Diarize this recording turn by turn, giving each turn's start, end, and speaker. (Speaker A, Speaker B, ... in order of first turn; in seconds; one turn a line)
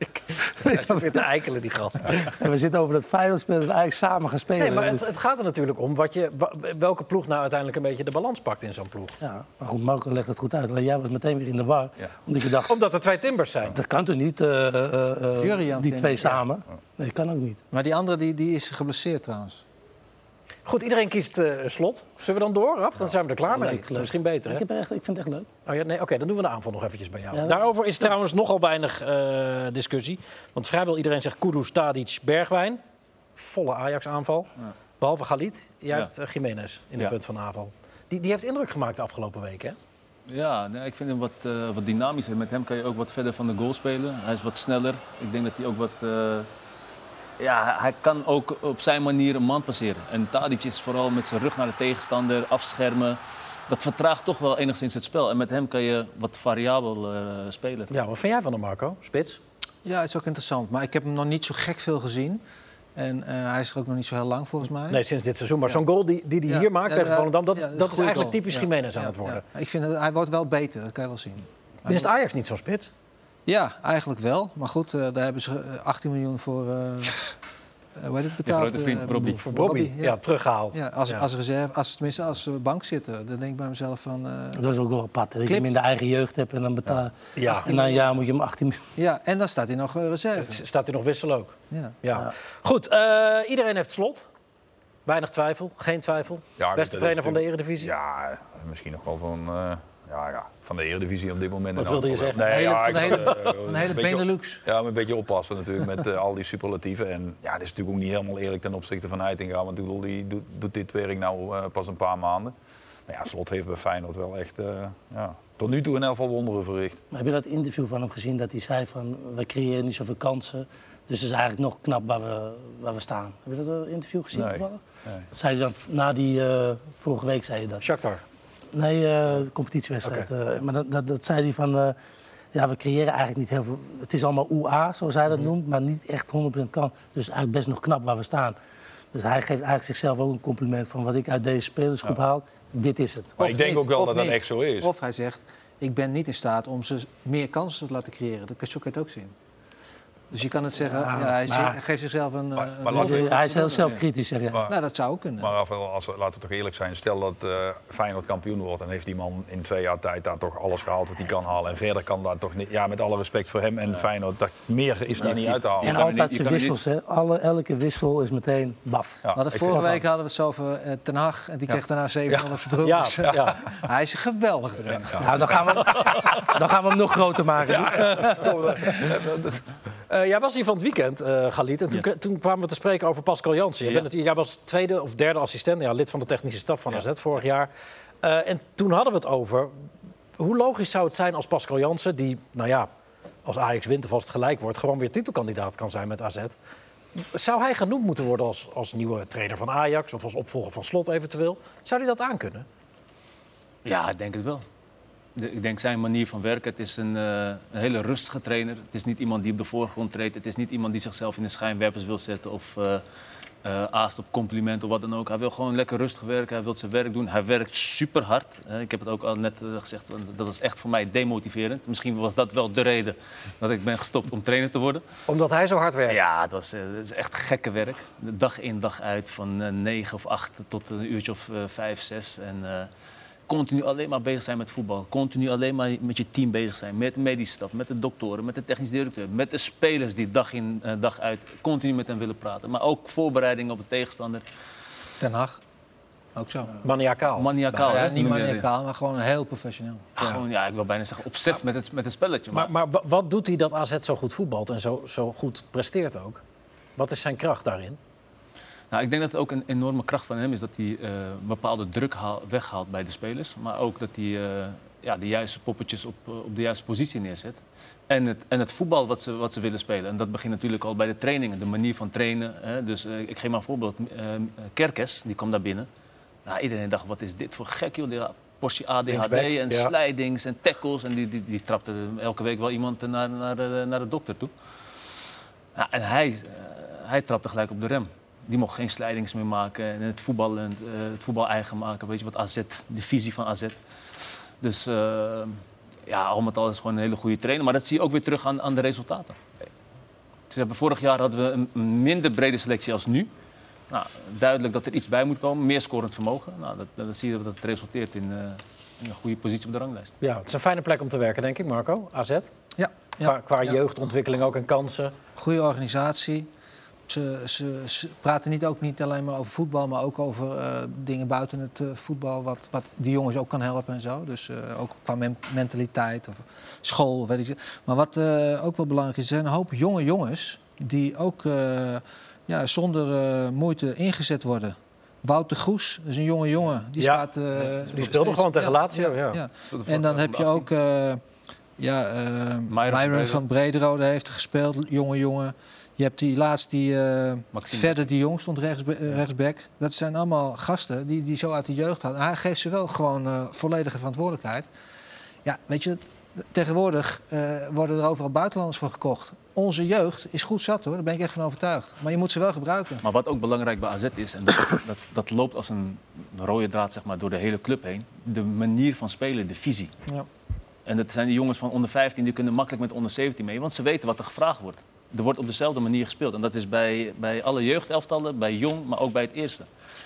Speaker A: 0.1-2.3
Speaker B: 2.1-5.1
Speaker A: 4.6-9.2
Speaker B: 9.2-12.8
Speaker A: 12.7-13.8
Speaker B: 13.7-17.6
Speaker C: 15.4-16.4
Speaker C: 17.7-19.6
Speaker A: 20.7-24.6
Speaker B: 23.5-25.5
Speaker A: 25.7-32.8
Speaker B: 27.3-27.6
Speaker A: 33.4-34.5
Speaker A: 35.0-39.8
Speaker D: 40.3-46.5
Speaker D: 47.4-57.9
Speaker A: 57.9-59.4
Speaker C: 59.9-62.4
Speaker C: 63.0-65.0
Speaker A: 64.9-69.4
Speaker C: 66.5-72.1
Speaker A: 71.9-72.9
Speaker C: 73.5-77.3
Speaker C: 78.0-80.2
Speaker D: 78.5-79.4
Speaker A: 79.1-81.3
Speaker C: 80.7-84.6
Speaker B: 84.5-88.8
Speaker C: 85.5-85.7
Speaker A: 87.3-87.9
Speaker C: 89.0-90.6
Speaker A: 90.4-94.2
Speaker C: 91.7-92.0
Speaker A: 95.1-97.9
Speaker E: 96.6-112.5
Speaker A: 101.8-103.3
Speaker C: 102.5-104.6
Speaker E: 113.1-117.0
Speaker B: 117.1-124.8
Speaker E: 124.3-125.2
Speaker B: 125.3-127.8
Speaker A: 127.8-128.2
Speaker B: 128.7-132.0
Speaker B: 132.5-138.6
Speaker B: 139.1-143.4
Speaker E: 143.4-144.9
Speaker C: 143.4-149.3
Speaker C: 150.3-154.0
Speaker B: 150.9-151.8
Speaker E: 152.6-153.3
Speaker B: 152.9-154.7
Speaker C: 154.7-155.5
Speaker E: 155.4-166.0
Speaker D: 165.2-166.8
Speaker B: 165.8-170.0
Speaker E: 169.2-170.0
Speaker C: 169.4-175.5
Speaker A: 172.8-173.6
Speaker B: 175.2-178.9
Speaker E: 177.7-179.6
Speaker A: 180.1-187.7
Speaker A: 188.2-189.8
Speaker A: 190.4-192.9
Speaker A: 193.4-196.6
Speaker A: 197.2-202.7
Speaker D: 203.8-204.7
Speaker D: 205.4-213.0
Speaker D: 213.6-225.0
Speaker A: 225.3-226.2
Speaker D: 226.1-232.9
Speaker D: 233.5-244.4
Speaker C: 245.2-245.6
Speaker C: 246.3-246.7
Speaker A: 246.8-247.5
Speaker D: 247.4-248.7
Speaker C: 247.7-250.1
Speaker D: 250.2-252.7
Speaker A: 252.5-256.4
Speaker A: 257.0-258.0
Speaker D: 258.9-275.9
Speaker D: 276.5-284.5
Speaker A: 279.1-279.9
Speaker D: 285.8-299.4
Speaker D: 300.5-303.3
Speaker D: 303.9-310.1
Speaker A: 310.2-312.5
Speaker C: 312.8-313.8
Speaker A: 313.2-315.1
Speaker C: 315.4-316.5
Speaker C: 317.1-341.2
Speaker A: 337.0-337.3
Speaker A: 337.9-339.4
Speaker D: 339.7-340.7
Speaker C: 341.8-354.7
Speaker D: 342.7-343.4
Speaker D: 347.5-348.1
Speaker C: 355.4-363.0
Speaker D: 363.0-369.9
Speaker D: 370.9-379.7